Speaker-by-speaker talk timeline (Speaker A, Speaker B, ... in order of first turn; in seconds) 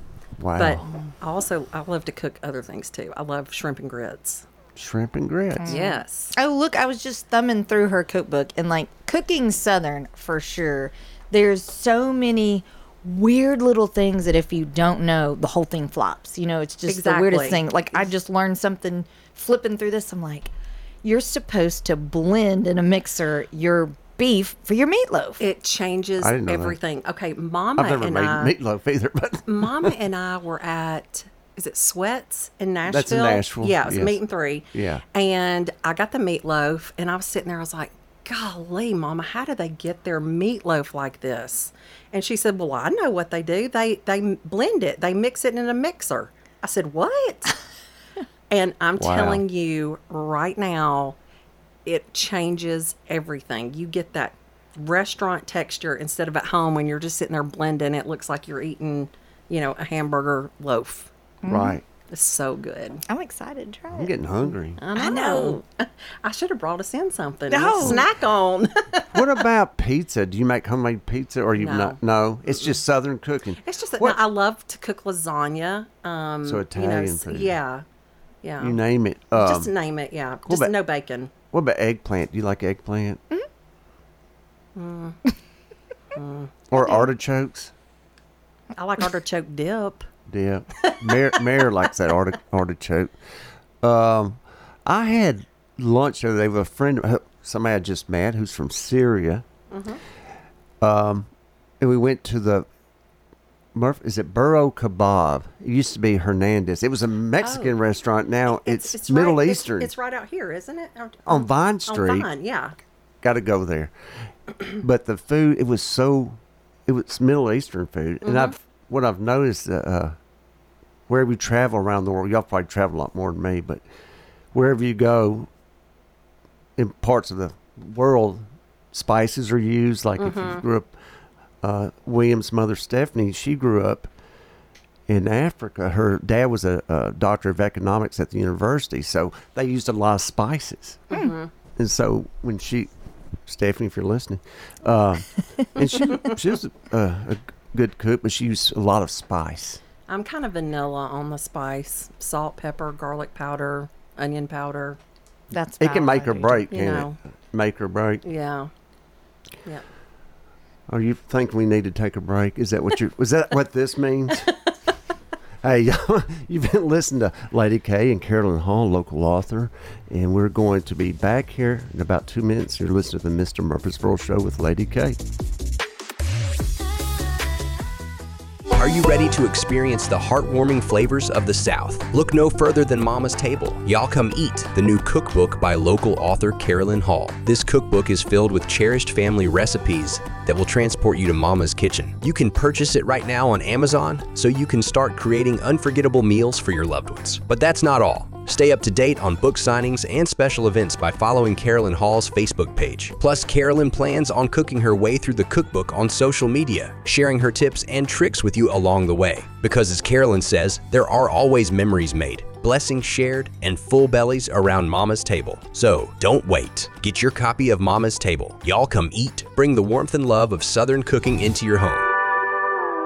Speaker A: 0.4-0.9, 4.8-5.7, 26.2-26.8, 27.8-29.9, 32.9-34.2, 34.7-35.0, 49.0-49.4, 61.5-61.8, 63.9-64.8, 69.1-74.2, 76.4-77.6, 78.6-79.7, 80.5-80.7, 81.5-83.2, 86.7-87.7, 90.3-93.1, 93.8-99.4, 100.8-101.3, 101.8-102.7, 103.7-109.9, 111.2-112.3, 113.2-113.9, 114.8-120.2, 121.1-123.8, 124.5-125.5, 126.8-130.9, 131.6-134.1, 135.1-141.1, 141.8-142.9, 143.4-149.8, 155.8-158.2, 160.9-164.5, 165.6-175.2
Speaker B: 0.6-4.4, 5.7-6.3, 16.9-17.6, 25.4-28.5, 29.5-47.5, 48.5-51.2, 51.8-61.1, 62.1-63.0, 64.8-69.2, 71.5-72.0, 73.6-77.8, 78.4-78.8, 79.3-81.3, 84.7-85.2, 86.1-87.0, 88.7-90.0, 90.8-91.4, 99.7-100.0, 107.4-107.8, 108.5-112.7, 118.2-118.5, 130.2-130.6, 141.1-141.5, 150.1-155.0, 156.7-157.2, 158.2-158.7
Speaker C: 5.6-20.5, 21.0-25.4, 61.4-61.8, 63.1-65.6, 67.5-68.0, 155.5-156.7
Speaker D: 178.7-222.1